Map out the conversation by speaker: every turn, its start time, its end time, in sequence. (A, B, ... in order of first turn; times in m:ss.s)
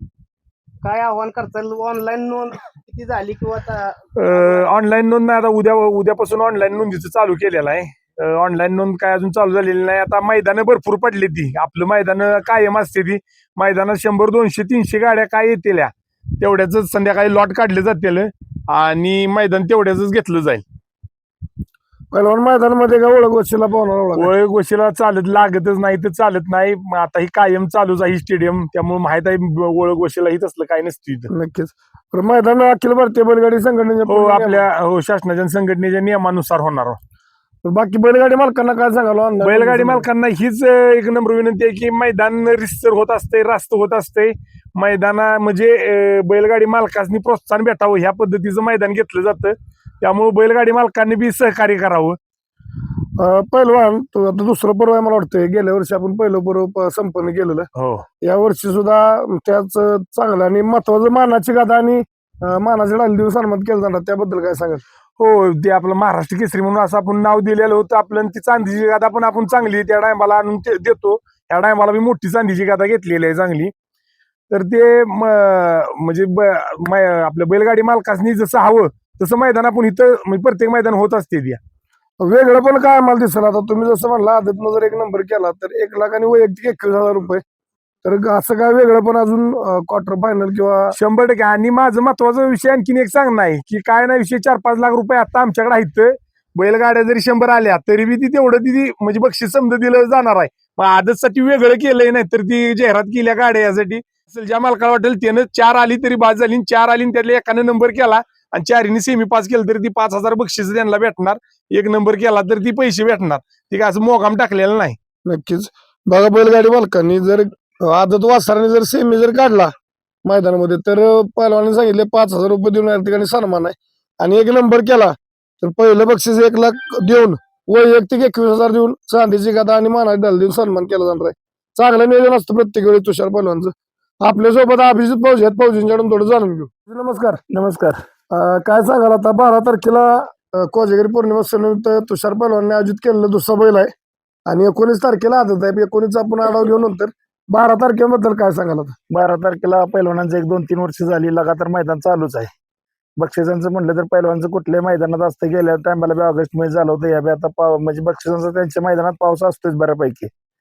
0:00.8-0:04.7 A
0:04.2-0:20.6 B
0:22.1-0:24.3 C
0:24.2-0:31.3 B
0:31.3-0:34.7 C
0:34.1-0:37.0 B
0:37.6-0:40.1 C
0:39.4-0:52.2 B
0:53.2-0:57.7 C
0:57.8-0:58.0 B
0:58.2-1:04.8 C
1:05.2-1:13.7 B
1:14.5-1:21.6 B
1:22.2-1:27.4 C
1:28.0-1:30.9 C
1:30.9-1:55.0 B
1:55.2-1:59.7 C
2:00.2-2:17.4 C
2:17.5-2:18.0 D
2:18.3-2:23.9 C
2:24.5-2:28.9 C
2:29.1-2:32.5 D
2:33.2-2:40.3 D